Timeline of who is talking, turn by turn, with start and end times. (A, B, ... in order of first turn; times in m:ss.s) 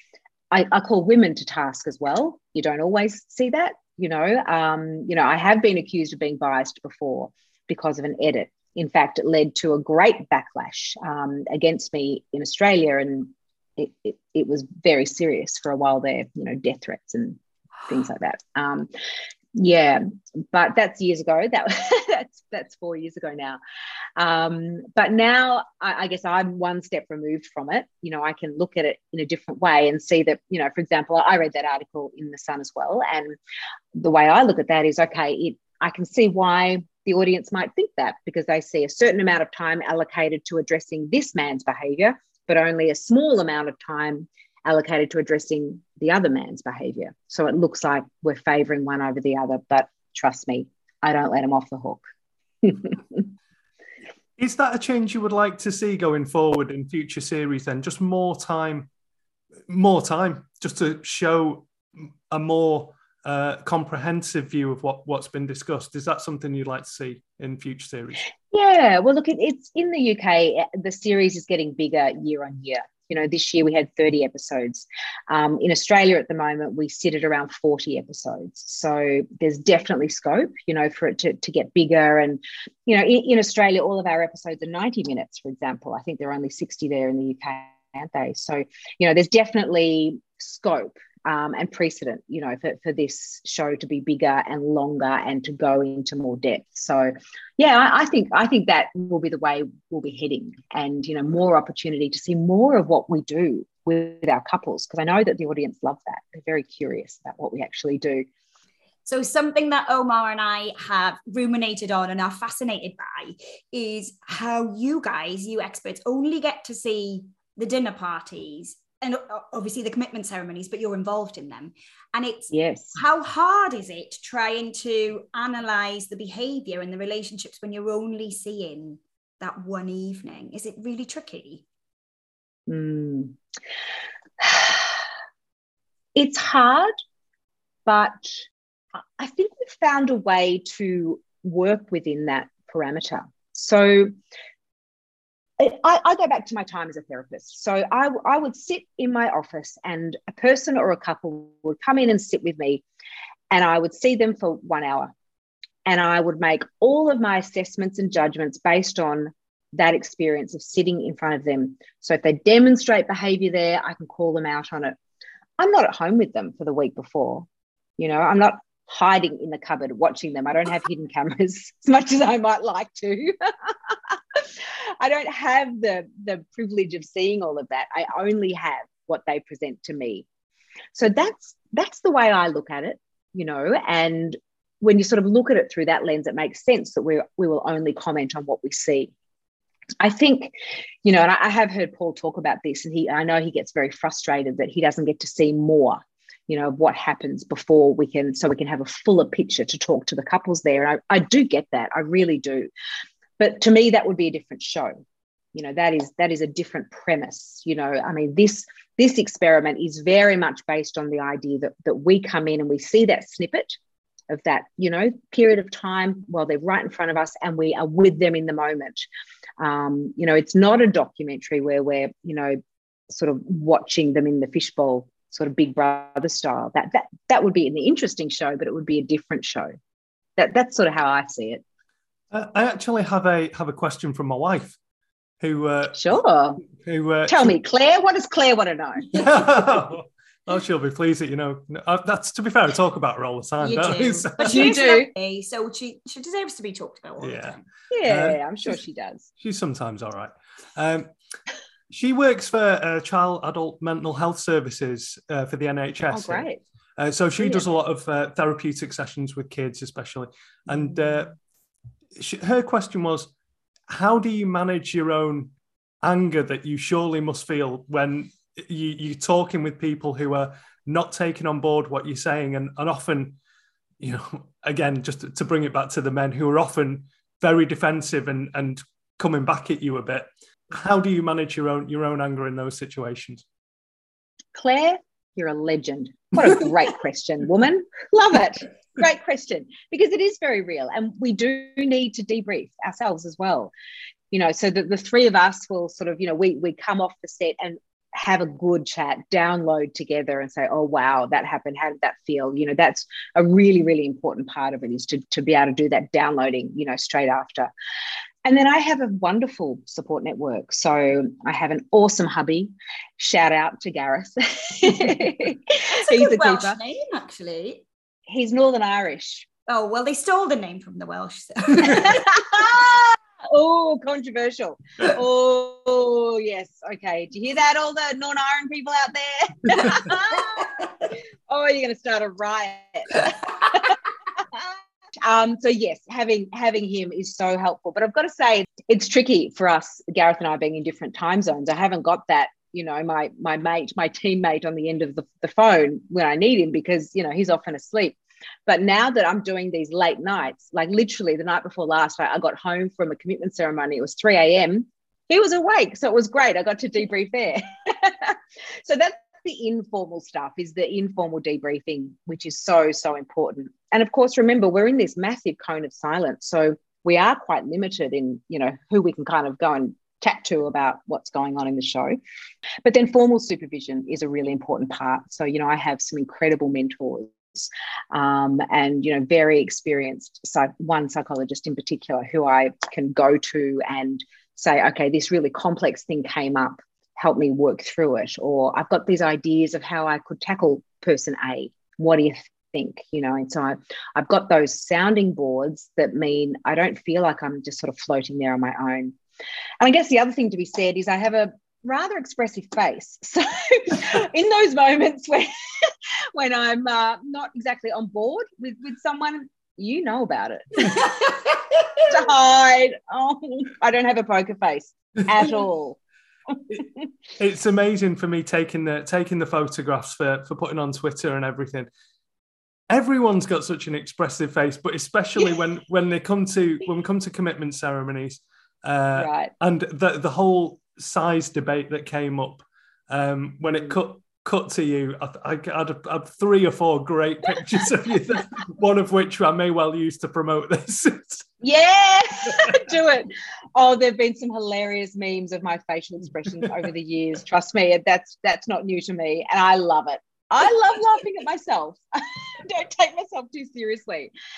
0:00.5-0:18.9 A
0:19.6-0:23.6 A
0:24.2-0:33.4 A
0:33.9-0:52.0 A
0:52.6-0:53.2 A
0:54.4-0:58.9 B
0:59.7-1:01.7 B
1:02.3-1:08.3 B
1:08.5-1:48.3 A
1:49.1-2:11.6 C
2:02.5-2:03.0 A
2:12.7-2:13.4 A
2:14.4-2:15.0 A
2:16.1-2:16.9 A
2:17.9-2:18.4 A
2:19.0-2:24.1 A
2:25.6-2:32.8 A
2:33.5-2:35.1 A
2:35.9-2:45.0 A
2:45.6-2:47.5 A
2:48.0-3:00.3 A
3:00.9-3:09.1 A
3:10.0-3:22.7 A
3:23.4-3:25.0 A
3:25.5-3:33.8 A
3:34.3-3:39.1 A
3:39.6-3:49.7 A
3:50.4-3:51.6 A
3:52.3-3:54.8 B
3:55.4-3:56.2 B
3:56.0-3:56.6 A
3:56.8-3:57.5 B
3:57.3-3:59.6 A
3:59.1-4:04.7 B
4:03.6-4:07.6 C
4:04.4-4:05.1 A
4:07.2-4:07.6 B
4:07.9-4:09.3 A
4:08.1-4:08.7 B
4:09.4-4:11.1 B
4:11.9-4:21.3 B
4:16.1-4:16.6 A
4:17.4-4:17.6 A
4:20.7-4:21.2 A
4:22.2-4:23.3 B
4:23.9-4:25.5 B
4:26.0-4:33.4 B
4:34.0-4:43.4 B
4:44.6-4:53.7 A
4:54.3-5:07.7 A
5:08.4-5:16.8 A
5:15.9-5:17.8 C
5:18.3-5:19.5 A
5:19.7-5:22.7 C
5:22.0-5:30.8 A
5:31.5-6:12.2 A
6:12.8-6:39.2 A
6:39.8-6:51.4 A
6:52.0-6:56.0 A
6:56.5-6:57.0 A
6:57.4-7:01.9 B
7:02.9-7:21.5 B
7:09.1-7:09.5 A
7:13.7-7:14.0 A
7:21.6-7:34.3 A